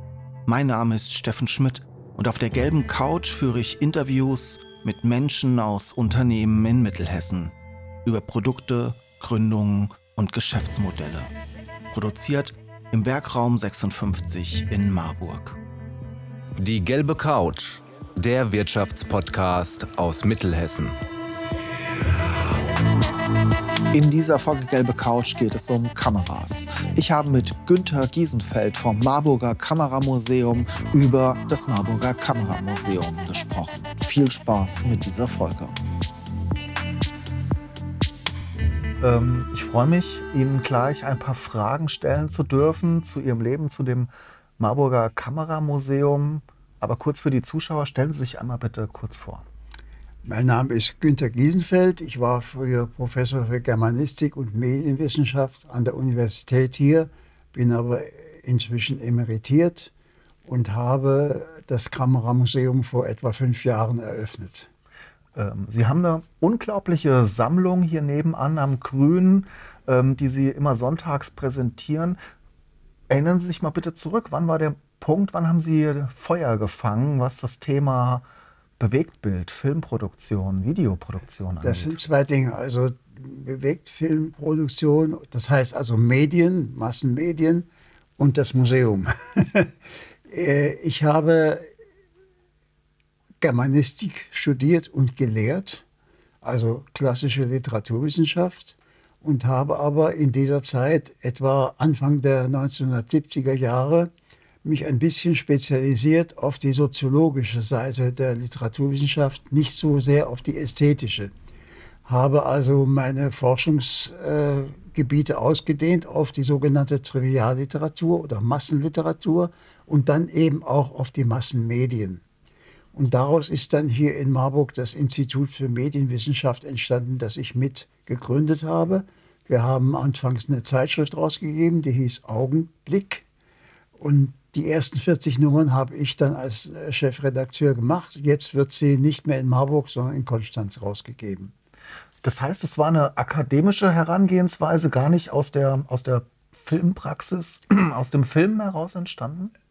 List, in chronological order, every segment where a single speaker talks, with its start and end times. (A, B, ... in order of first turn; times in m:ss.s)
0:00.5-0:11.3 A
0:11.9-0:15.6 A
0:16.6-0:21.0 B
0:23.9-0:35.8 A
0:39.0-0:49.4 A
0:50.2-0:59.9 C
1:00.4-1:04.7 C
1:05.3-1:12.2 A
1:13.1-1:18.2 A
1:18.8-1:22.0 A
1:21.6-1:29.7 C
1:30.3-1:31.7 C
1:33.4-1:35.8 C
1:36.4-1:44.1 C
1:44.6-1:51.3 C
1:52.0-2:02.2 C
2:02.9-2:13.2 C
2:14.0-2:21.5 C
2:22.2-2:29.5 A